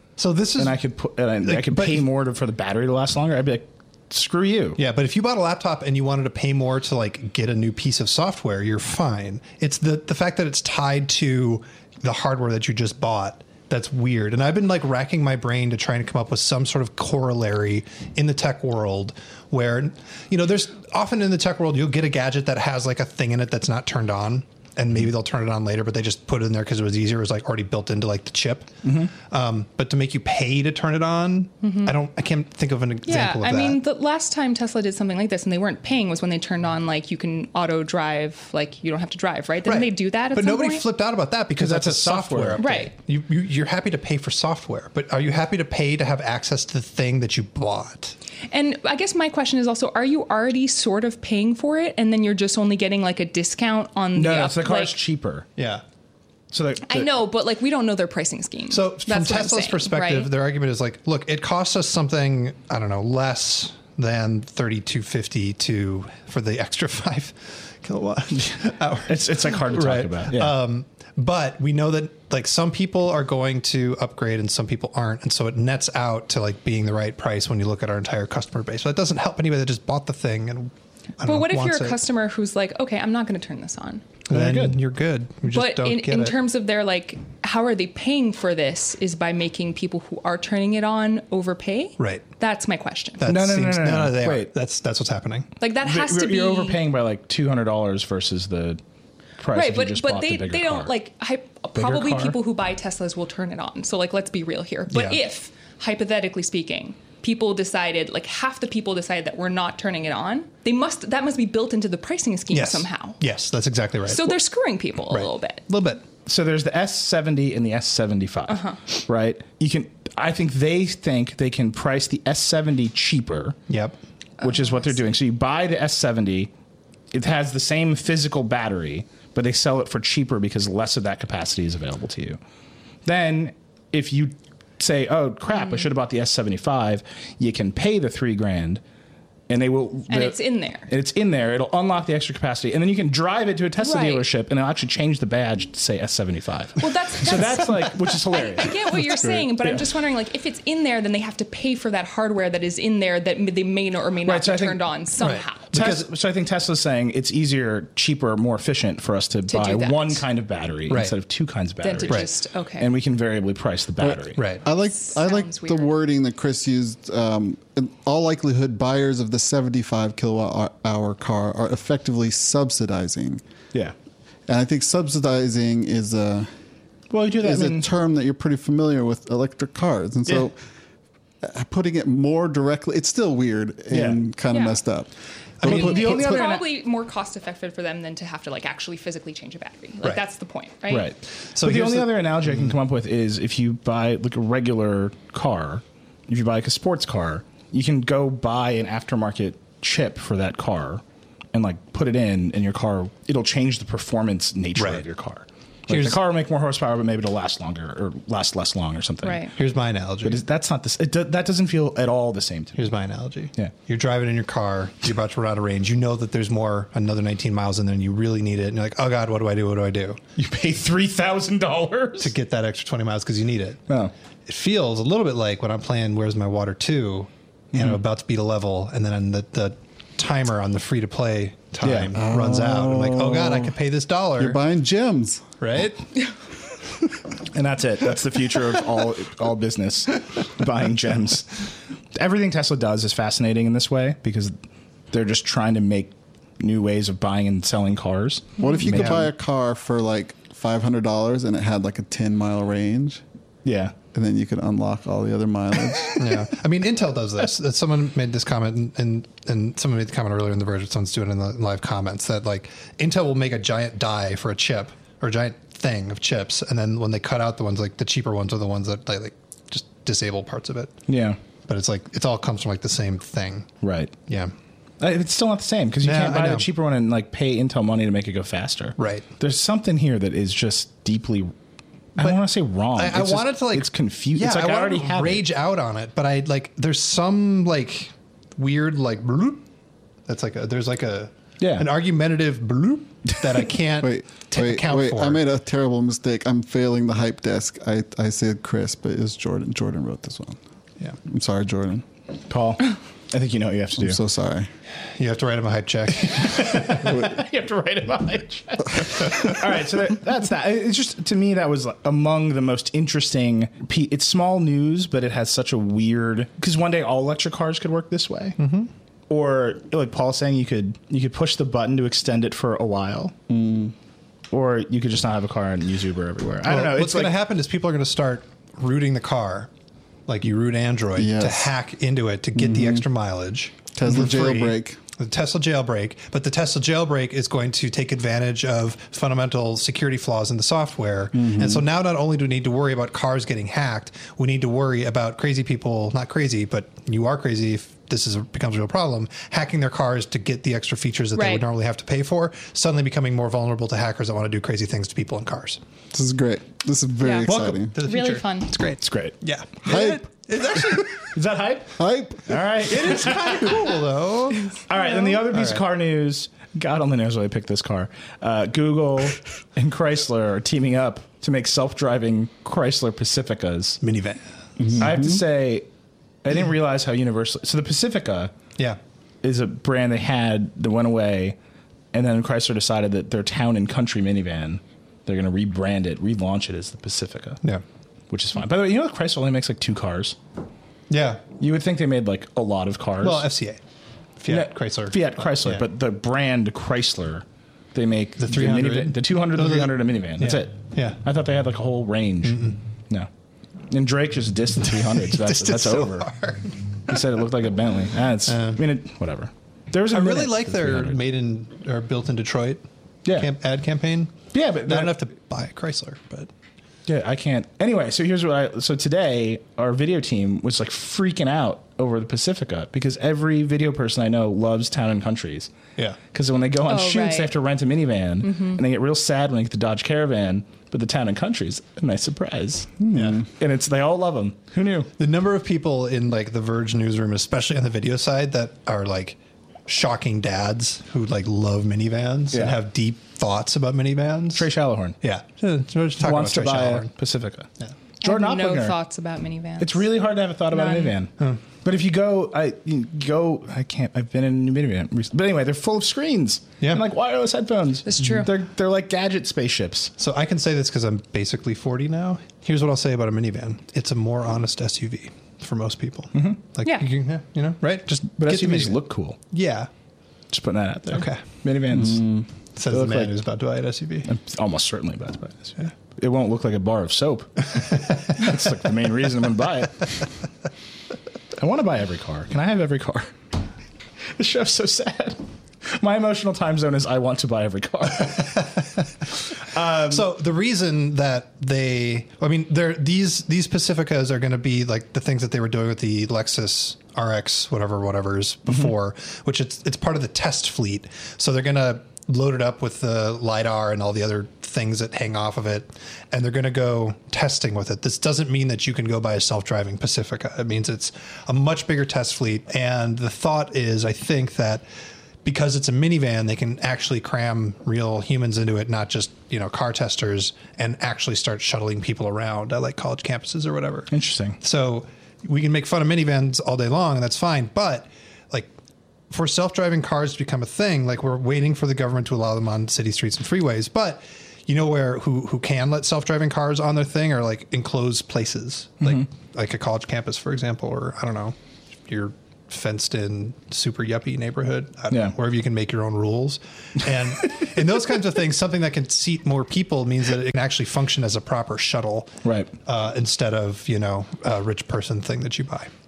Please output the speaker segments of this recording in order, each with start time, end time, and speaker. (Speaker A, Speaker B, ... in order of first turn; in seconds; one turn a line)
Speaker A: 0.2-0.8
Speaker B: 0.6-4.8
Speaker A: 1.4-2.0
Speaker A: 4.8-33.8
Speaker B: 28.8-29.1
Speaker C: 31.6-31.9
Speaker C: 33.1-40.8
Speaker A: 39.6-48.1
Speaker B: 41.6-42.7
Speaker C: 42.6-42.9
Speaker C: 48.5-54.9
Speaker B: 54.1-55.5
Speaker A: 55.6-55.8
Speaker B: 56.5-57.1
Speaker C: 56.9-60.3
Speaker A: 58.7-82.0
Speaker B: 69.0-70.5
Speaker C: 81.2-84.0
Speaker A: 84.3-86.4
Speaker B: 84.3-84.8
Speaker C: 85.5-93.2
Speaker A: 92.0-92.2
Speaker A: 93.2-95.5
Speaker B: 93.2-94.5
Speaker C: 95.6-96.8
Speaker B: 95.8-98.8
Speaker B: 99.4-100.9
Speaker C: 99.5-113.2
Speaker B: 101.8-102.3
Speaker A: 104.9-105.2
Speaker A: 112.5-114.4
Speaker C: 114.1-115.6
Speaker A: 115.1-116.0
Speaker B: 116.2-123.6
Speaker C: 118.5-118.8
Speaker A: 123.7-124.0
Speaker C: 124.4-124.9
Speaker B: 124.4-126.5
Speaker B: 127.1-132.4
Speaker B: 133.0-138.8
Speaker C: 135.6-135.8
Speaker B: 139.5-149.8
Speaker C: 140.1-140.9
Speaker C: 143.8-144.2
Speaker C: 146.8-155.7
Speaker B: 154.2-154.8
Speaker A: 155.2-156.1
Speaker B: 155.7-164.4
Speaker C: 159.5-160.2
Speaker A: 160.9-161.1
Speaker C: 161.8-162.9
Speaker D: 164.0-173.4
Speaker A: 164.3-164.6
Speaker C: 164.7-165.9
Speaker D: 174.5-176.5
Speaker B: 177.1-177.9
Speaker D: 177.4-180.5
Speaker D: 181.4-185.1
Speaker B: 183.9-184.2
Speaker C: 184.5-184.8
Speaker A: 185.6-186.0
Speaker B: 185.6-186.7
Speaker C: 185.6-191.1
Speaker D: 185.8-186.4
Speaker B: 190.9-201.0
Speaker A: 191.5-192.7
Speaker B: 201.5-209.5
Speaker A: 204.8-205.0
Speaker A: 205.9-206.2
Speaker C: 209.2-209.5
Speaker A: 209.6-210.4
Speaker B: 210.2-212.9
Speaker A: 212.8-220.2
Speaker B: 220.4-222.3
Speaker A: 222.2-223.8
Speaker A: 224.4-234.6
Speaker B: 227.7-228.0
Speaker B: 231.8-232.1
Speaker D: 232.1-233.7
Speaker D: 234.4-235.5
Speaker A: 235.6-236.0
Speaker B: 237.5-244.5
Speaker B: 245.1-249.3
Speaker D: 248.6-253.2
Speaker A: 248.9-249.3
Speaker B: 253.6-253.9
Speaker D: 254.1-256.5
Speaker A: 256.1-270.9
Speaker B: 271.1-271.4
Speaker A: 271.7-273.7
Speaker B: 273.8-274.1
Speaker A: 274.3-274.5
Speaker B: 275.0-281.5
Speaker A: 276.0-276.6
Speaker A: 279.0-279.3
Speaker B: 282.2-285.4
Speaker A: 282.9-289.6
Speaker A: 290.2-295.4
Speaker B: 291.6-291.9
Speaker D: 294.0-300.6
Speaker D: 301.2-302.0
Speaker B: 302.5-304.2
Speaker D: 304.0-304.7
Speaker A: 305.1-307.2
Speaker B: 306.2-318.6
Speaker A: 318.6-318.9
Speaker B: 319.3-323.3
Speaker D: 323.5-323.9
Speaker B: 324.5-327.4
Speaker A: 326.6-329.7
Speaker A: 330.3-355.8
Speaker D: 331.1-331.7
Speaker D: 332.6-333.0
Speaker D: 333.9-335.0
Speaker D: 341.3-341.8
Speaker C: 351.3-351.6
Speaker D: 356.1-357.9
Speaker C: 357.2-358.7
Speaker A: 357.4-361.2
Speaker B: 359.0-359.4
Speaker D: 359.8-360.9
Speaker B: 361.3-363.9
Speaker D: 362.0-362.6
Speaker A: 362.8-364.7
Speaker B: 364.9-374.0
Speaker A: 365.2-365.8
Speaker A: 374.0-374.4
Speaker D: 374.8-375.4
Speaker B: 375.0-375.9
Speaker B: 376.4-378.5
Speaker B: 379.4-381.6
Speaker B: 382.1-387.6
Speaker B: 388.3-390.4
Speaker A: 391.1-391.4
Speaker B: 391.6-393.5
Speaker A: 393.2-393.8
Speaker A: 394.4-395.8
Speaker B: 394.5-403.3
Speaker A: 398.4-401.2
Speaker A: 402.4-402.8
Speaker B: 403.9-406.3
Speaker A: 405.1-406.7
Speaker B: 407.1-411.2
Speaker A: 408.5-408.8
Speaker A: 410.1-416.5
Speaker B: 413.2-413.5
Speaker B: 414.5-415.1
Speaker B: 417.1-425.7
Speaker B: 426.3-435.1
Speaker C: 426.9-427.5
Speaker C: 428.4-428.8
Speaker D: 433.0-433.4
Speaker A: 433.1-433.4
Speaker A: 435.2-444.7
Speaker B: 442.5-442.8
Speaker B: 444.5-445.2
Speaker A: 445.2-447.1
Speaker B: 446.2-447.7
Speaker C: 448.2-450.1
Speaker B: 448.2-448.9
Speaker B: 449.8-451.3
Speaker C: 450.7-451.2
Speaker B: 451.8-460.1
Speaker C: 458.1-458.5
Speaker A: 460.2-469.9
Speaker B: 466.3-466.6
Speaker B: 468.3-469.4
Speaker B: 470.5-473.3
Speaker A: 471.1-471.4
Speaker D: 471.9-472.4
Speaker A: 472.8-474.3
Speaker B: 474.3-480.2
Speaker A: 477.8-478.4
Speaker B: 481.6-483.3
Speaker B: 484.3-488.7
Speaker A: 488.2-514.8
Speaker B: 489.6-490.2
Speaker A: 515.4-528.7
Speaker B: 524.1-524.6
Speaker A: 529.3-541.5
Speaker A: 542.1-555.9
Speaker B: 552.4-552.7